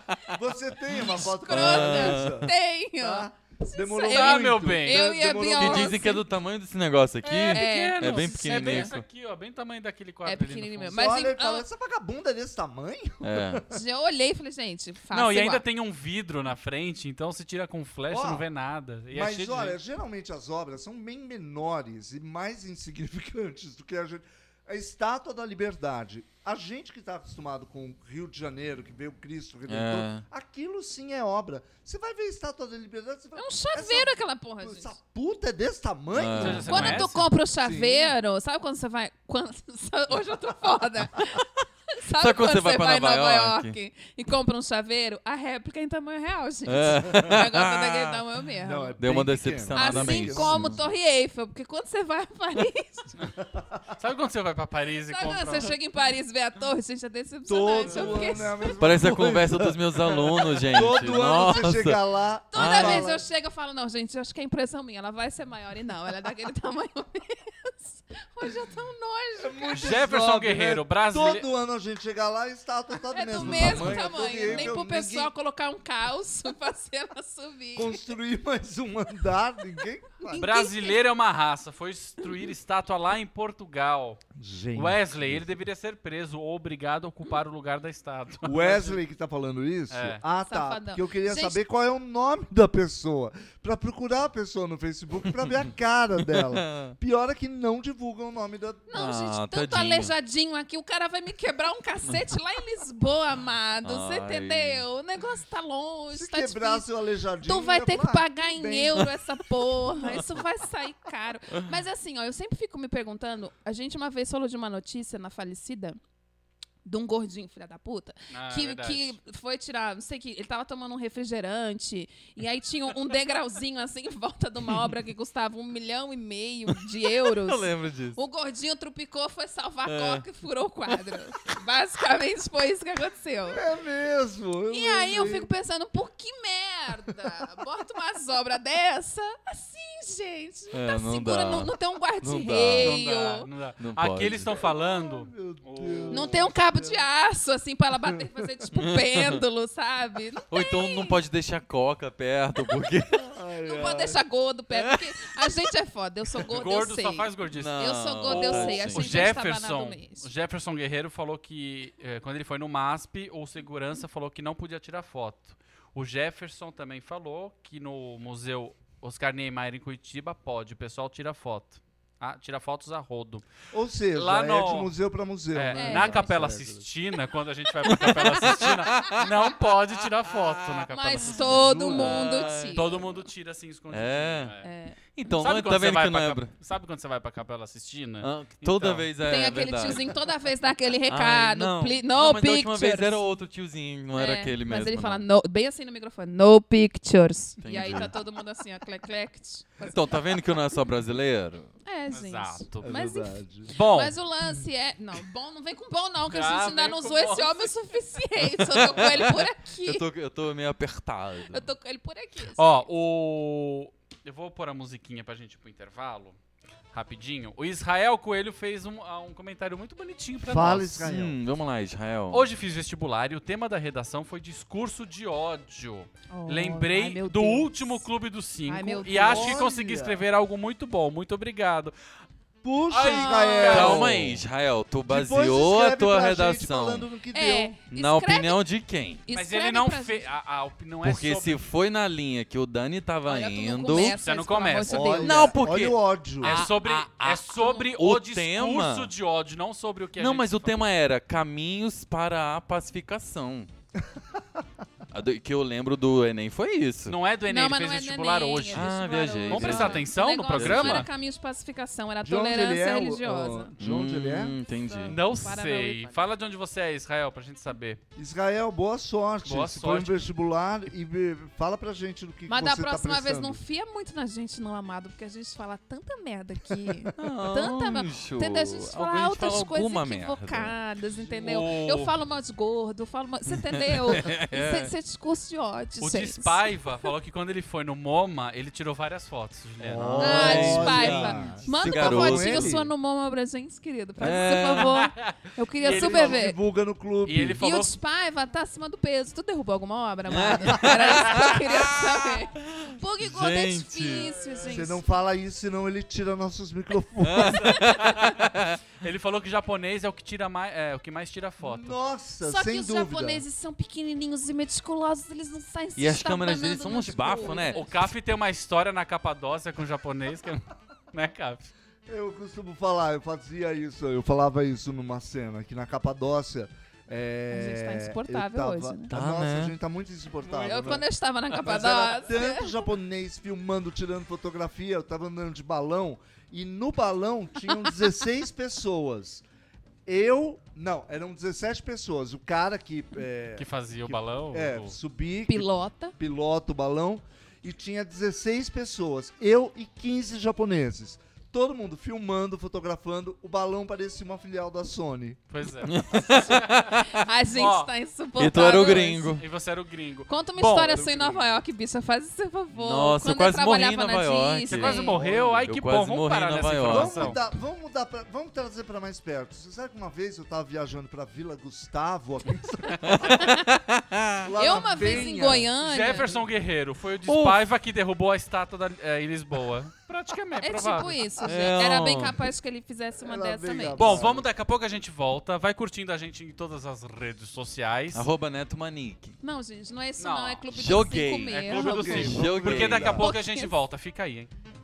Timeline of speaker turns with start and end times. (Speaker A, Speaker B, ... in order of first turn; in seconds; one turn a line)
Speaker A: 0.3-2.5
Speaker B: 0.9-6.2
Speaker C: 1.1-2.4
Speaker A: 3.0-6.0
Speaker D: 4.0-5.1
Speaker C: 5.4-9.0
Speaker D: 7.2-10.9
Speaker B: 7.4-8.9
Speaker B: 10.2-11.7
Speaker A: 10.8-13.7
Speaker C: 13.2-13.6
Speaker B: 13.7-15.6
Speaker D: 15.1-19.8
Speaker A: 18.1-18.5
Speaker A: 19.1-38.1
Speaker C: 29.7-30.2
Speaker B: 33.4-34.9
Speaker C: 36.1-37.0
Speaker D: 36.3-37.3
Speaker B: 36.7-48.9
Speaker C: 42.2-43.8
Speaker C: 46.6-48.2
Speaker A: 48.6-50.9
Speaker C: 49.0-50.8
Speaker B: 49.7-53.1
Speaker A: 53.5-53.8
Speaker D: 54.0-55.7
Speaker B: 55.1-58.8
Speaker A: 57.5-63.2
Speaker C: 58.8-62.0
Speaker B: 62.5-69.8
Speaker C: 62.5-63.1
Speaker A: 69.4-75.3
Speaker D: 69.7-71.5
Speaker B: 73.1-78.0
Speaker D: 73.4-74.7
Speaker A: 77.8-80.5
Speaker B: 80.3-80.9
Speaker D: 80.3-84.2
Speaker A: 84.3-85.5
Speaker D: 84.7-89.0
Speaker A: 88.4-98.9
Speaker D: 89.9-90.2
Speaker B: 90.5-91.6
Speaker C: 96.5-96.9
Speaker B: 98.9-106.8
Speaker C: 98.9-100.1
Speaker C: 103.8-104.8
Speaker A: 106.1-109.2
Speaker B: 107.4-116.0
Speaker C: 109.9-110.2
Speaker B: 116.8-133.6
Speaker D: 118.3-119.2
Speaker C: 127.1-128.2
Speaker C: 129.9-130.2
Speaker A: 133.5-135.5
Speaker B: 134.7-143.5
Speaker C: 140.7-141.7
Speaker A: 142.2-142.9
Speaker C: 142.3-142.9
Speaker D: 142.8-146.4
Speaker C: 143.8-144.5
Speaker A: 144.4-147.0
Speaker B: 146.1-151.2
Speaker C: 148.8-149.4
Speaker C: 150.5-153.2
Speaker A: 153.1-154.2
Speaker B: 153.6-160.3
Speaker C: 154.7-155.1
Speaker D: 156.5-173.4
Speaker C: 157.5-159.3
Speaker A: 173.7-176.8
Speaker D: 174.1-174.9
Speaker D: 175.5-181.9
Speaker B: 175.7-176.3
Speaker C: 177.8-179.3
Speaker C: 180.3-183.0
Speaker B: 180.9-182.9
Speaker A: 181.4-182.3
Speaker D: 182.7-184.7
Speaker C: 183.9-184.5
Speaker B: 184.6-185.0
Speaker C: 185.1-186.5
Speaker D: 185.3-189.3
Speaker C: 188.2-190.1
Speaker B: 189.2-193.2
Speaker C: 191.1-195.2
Speaker B: 194.1-200.6
Speaker C: 197.6-198.1
Speaker C: 199.8-201.7
Speaker B: 201.8-210.1
Speaker D: 202.1-202.9
Speaker A: 202.8-203.7
Speaker D: 203.7-204.2
Speaker D: 206.2-207.7
Speaker C: 208.4-211.7
Speaker B: 211.5-212.8
Speaker D: 212.6-216.4
Speaker D: 216.9-221.0
Speaker A: 220.4-221.3
Speaker C: 221.0-222.4
Speaker D: 222.3-231.9
Speaker B: 226.3-228.1
Speaker B: 228.7-229.6
Speaker A: 229.1-230.2
Speaker A: 232.6-234.4
Speaker D: 232.9-234.4
Speaker B: 233.0-233.8
Speaker C: 233.7-237.1
Speaker A: 235.1-237.8
Speaker B: 237.3-238.6
Speaker C: 237.9-239.2
Speaker B: 239.2-240.3
Speaker D: 239.3-241.6
Speaker C: 241.0-244.2
Speaker B: 243.2-245.5
Speaker D: 244.1-245.1
Speaker A: 244.9-246.6
Speaker C: 245.2-249.1
Speaker D: 246.4-250.8
Speaker B: 246.7-247.9
Speaker C: 250.2-253.7
Speaker A: 254.1-254.4
Speaker C: 255.1-257.2
Speaker D: 257.1-261.1
Speaker B: 257.5-263.7
Speaker C: 258.7-261.1
Speaker A: 262.2-264.6
Speaker C: 263.8-265.2
Speaker B: 264.8-266.2
Speaker D: 265.1-268.0
Speaker A: 268.1-273.6
Speaker D: 269.4-270.1
Speaker B: 272.5-286.8
Speaker C: 277.1-280.7
Speaker D: 281.4-282.1
Speaker C: 283.5-284.9
Speaker D: 286.0-290.9
Speaker A: 289.8-292.9
Speaker C: 289.9-292.8
Speaker B: 290.2-296.6
Speaker C: 294.2-295.0
Speaker D: 294.9-296.4
Speaker A: 295.8-297.7
Speaker D: 297.2-297.9
Speaker B: 297.6-305.1
Speaker C: 300.3-304.3
Speaker D: 300.9-301.6
Speaker A: 304.7-307.9
Speaker C: 307.2-308.8
Speaker D: 309.0-312.0
Speaker A: 311.6-313.4
Speaker B: 312.4-318.0
Speaker C: 316.0-317.9
Speaker D: 317.5-321.7
Speaker A: 322.1-339.4
Speaker B: 327.5-329.1
Speaker C: 329.1-329.7
Speaker B: 330.5-332.8
Speaker A: 340.1-355.4
Speaker D: 343.6-344.9
Speaker B: 345.5-346.1
Speaker D: 355.5-356.8
Speaker C: 355.8-357.2
Speaker B: 357.1-359.3
Speaker D: 357.5-357.9
Speaker C: 358.4-359.4
Speaker D: 359.4-361.4
Speaker B: 360.3-365.2
Speaker A: 360.9-361.4
Speaker C: 362.7-367.4
Speaker D: 364.6-367.4
Speaker A: 365.1-365.6
Speaker A: 366.8-373.4
Speaker C: 373.1-374.4
Speaker B: 373.2-373.6
Speaker A: 374.4-375.7
Speaker B: 374.6-376.4
Speaker D: 375.8-381.2
Speaker C: 377.2-377.6
Speaker B: 380.6-384.1
Speaker A: 381.4-381.8
Speaker C: 381.4-382.4
Speaker A: 383.2-384.5
Speaker D: 383.9-388.3
Speaker C: 388.1-389.4
Speaker B: 389.4-392.3
Speaker D: 390.2-390.7
Speaker C: 390.7-393.2
Speaker D: 391.5-394.5
Speaker A: 391.7-393.2
Speaker B: 393.1-393.7